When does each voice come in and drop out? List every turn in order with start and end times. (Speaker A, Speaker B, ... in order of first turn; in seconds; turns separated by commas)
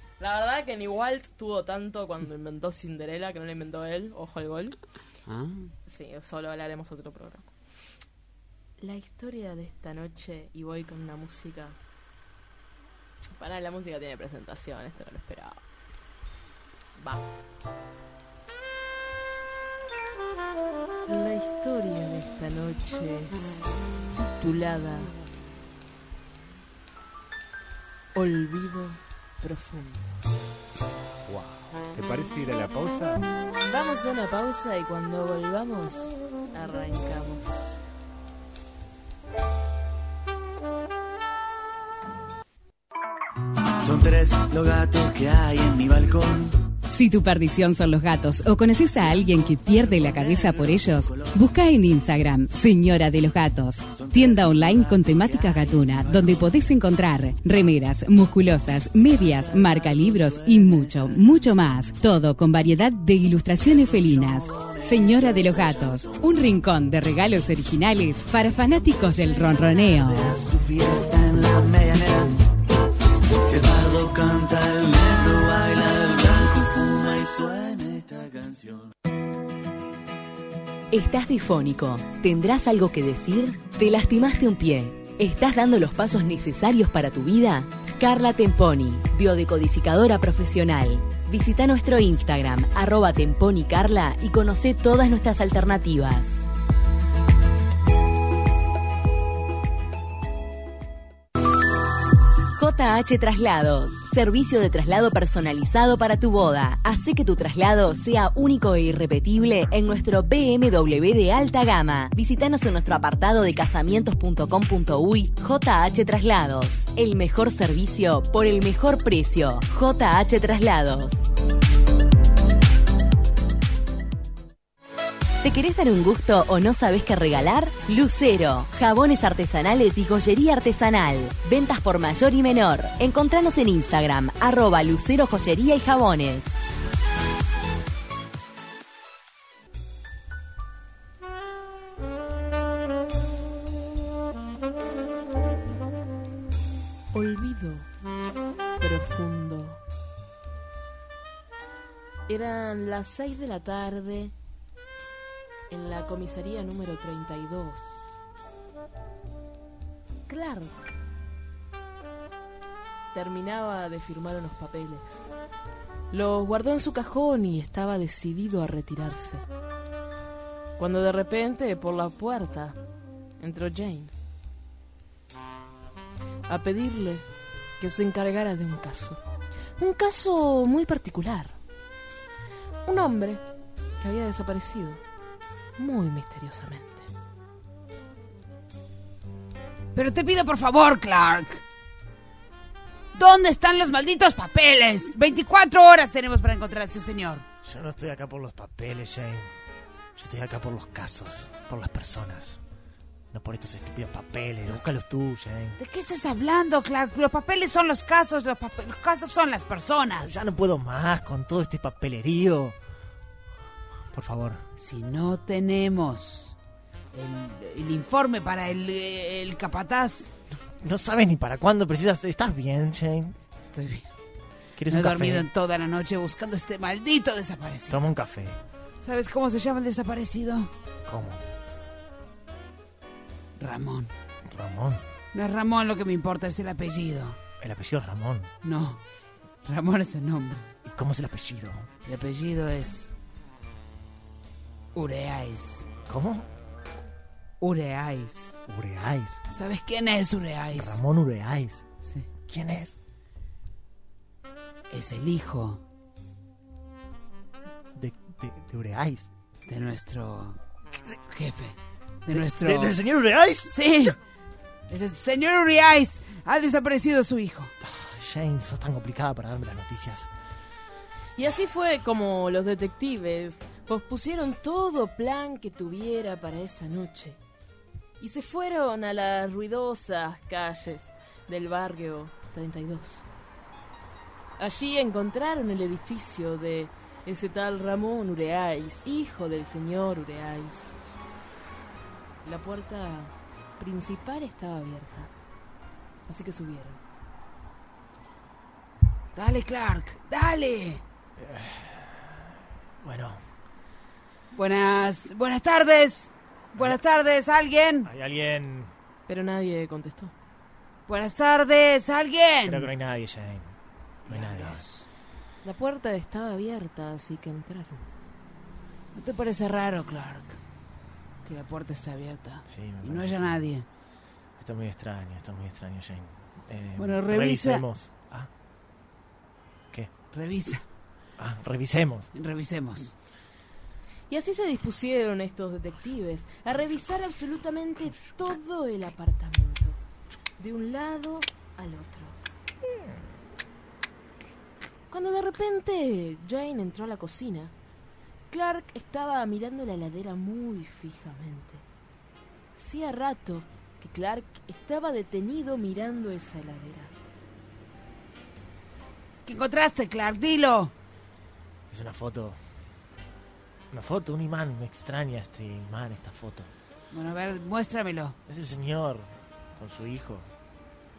Speaker A: 0.2-4.8, Speaker B: 5.3-5.7, Speaker A: 5.9-7.5, Speaker A: 8.8-11.8, Speaker A: 13.4-15.6, Speaker A: 17.0-17.3, Speaker A: 21.1-23.5, Speaker A: 24.2-25.2, Speaker A: 28.1-30.1, Speaker C: 31.3-33.3, Speaker A: 33.6-37.8, Speaker D: 43.8-46.6, Speaker E: 46.9-70.3, Speaker D: 49.0-51.4, Speaker D: 53.9-56.6, Speaker D: 59.0-61.3, Speaker D: 63.7-66.5, Speaker D: 68.5-72.5, Speaker D: 73.5-78.9, Speaker F: 80.9-96.4, Speaker F: 102.6-121.3, Speaker F: 125.4-136.5, Speaker A: 147.1-147.9, Speaker A: 148.8-149.8, Speaker A: 152.3-154.3, Speaker A: 155.7-158.1, Speaker A: 160.3-160.9, Speaker A: 163.1-165.3, Speaker A: 166.1-169.4, Speaker A: 170.8-172.8, Speaker A: 173.4-174.1, Speaker A: 176.5-177.2, Speaker A: 177.8-179.2, Speaker A: 179.8-181.6, Speaker A: 182.9-183.4, Speaker A: 184.0-185.0, Speaker A: 185.8-187.1, Speaker B: 189.9-191.6, Speaker B: 193.1-197.4, Speaker G: 197.6-199.5, Speaker G: 200.2-202.6, Speaker G: 203.3-205.8, Speaker B: 205.8-210.4, Speaker G: 210.2-212.8, Speaker G: 214.1-214.6, Speaker B: 214.8-216.6, Speaker B: 217.1-220.3, Speaker G: 220.8-223.4, Speaker B: 223.6-224.1, Speaker G: 224.8-225.5, Speaker B: 224.9-228.0, Speaker G: 227.9-228.6, Speaker B: 229.0-230.7, Speaker G: 231.1-231.4, Speaker B: 233.6-234.1, Speaker G: 234.4-235.0, Speaker B: 235.3-237.4, Speaker G: 237.6-238.5, Speaker B: 238.6-239.0, Speaker B: 239.7-240.7, Speaker G: 240.8-241.9, Speaker B: 242.1-243.1, Speaker B: 244.9-245.9, Speaker G: 246.1-246.5, Speaker B: 247.6-248.6, Speaker G: 248.7-249.4, Speaker B: 249.5-251.0, Speaker G: 250.7-251.8, Speaker B: 252.0-252.3, Speaker G: 252.5-253.0, Speaker B: 254.9-255.8, Speaker G: 257.9-259.3, Speaker B: 259.7-260.6, Speaker B: 261.2-263.0, Speaker G: 262.3-263.7, Speaker B: 263.6-264.2, Speaker B: 264.9-267.7, Speaker G: 267.8-270.3, Speaker A: 271.4-277.4, Speaker A: 278.2-283.3, Speaker A: 284.6-291.0, Speaker A: 292.4-295.3, Speaker A: 296.3-297.0, Speaker B: 299.4-301.0, Speaker G: 301.4-303.4, Speaker B: 304.5-308.1, Speaker G: 306.8-307.0, Speaker G: 308.1-308.9, Speaker A: 309.3-310.3, Speaker B: 311.1-312.9, Speaker G: 312.6-313.8, Speaker B: 314.3-315.1, Speaker G: 314.3-314.9, Speaker A: 315.6-318.1, Speaker B: 319.1-320.6, Speaker B: 321.4-323.9, Speaker G: 322.7-323.7, Speaker G: 324.6-328.5, Speaker B: 327.0-327.8, Speaker B: 330.3-330.9, Speaker G: 331.4-332.3, Speaker B: 332.3-333.1, Speaker A: 334.3-340.0, Speaker A: 340.6-342.4, Speaker A: 345.1-347.7, Speaker A: 348.5-351.8, Speaker A: 352.8-357.1, Speaker B: 359.5-360.9, Speaker G: 361.9-362.6, Speaker G: 363.9-366.7, Speaker B: 367.1-368.4, Speaker G: 368.5-370.5